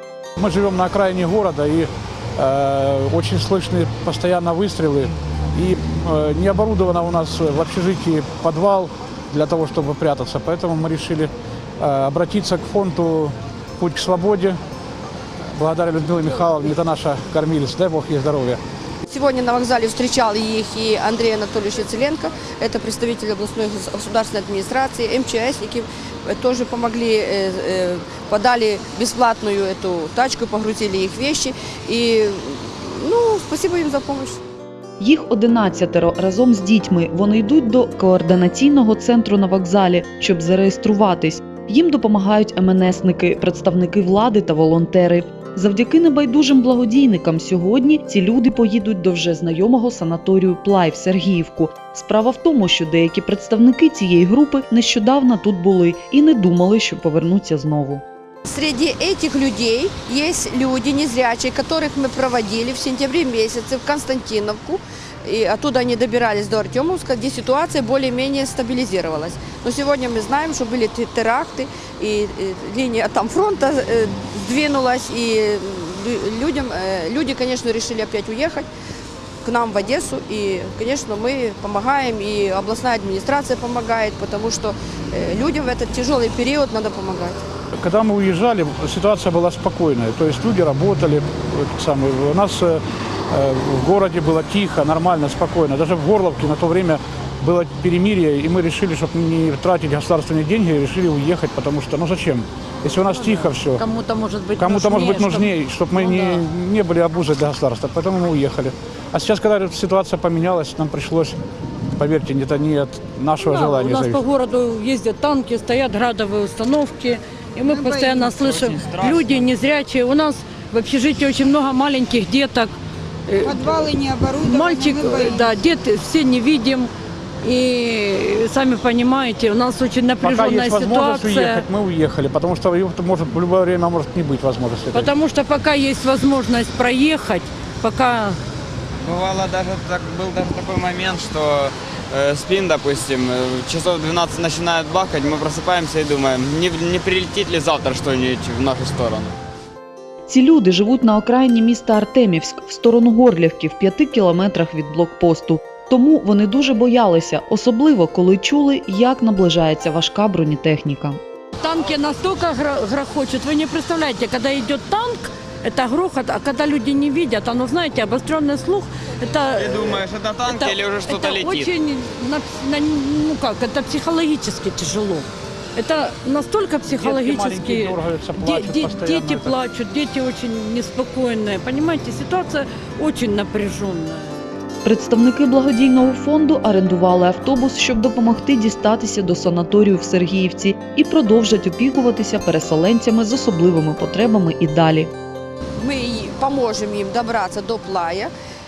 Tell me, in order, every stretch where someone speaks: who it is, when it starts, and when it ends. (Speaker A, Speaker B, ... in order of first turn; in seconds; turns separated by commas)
Speaker A: 0.4-14.6, Speaker A: 15.6-18.6, Speaker B: 19.1-34.4, Speaker C: 35.0-58.0, Speaker B: 58.5-78.7, Speaker B: 79.4-87.4, Speaker A: 87.8-103.8, Speaker D: 103.1-106.4, Speaker A: 104.6-111.4, Speaker A: 112.0-114.2, Speaker D: 113.4-122.7, Speaker E: 117.6-118.3, Speaker F: 118.3-119.5, Speaker D: 123.3-123.8, Speaker E: 123.4-125.6, Speaker D: 124.4-126.9, Speaker D: 127.4-131.7, Speaker A: 130.2-135.1, Speaker D: 134.9-138.4, Speaker F: 139.0-149.4, Speaker C: 150.3-161.2, Speaker D: 161.6-184.3, Speaker F: 169.6-171.7, Speaker A: 176.8-179.6, Speaker C: 184.8-195.1, Speaker B: 195.8-198.3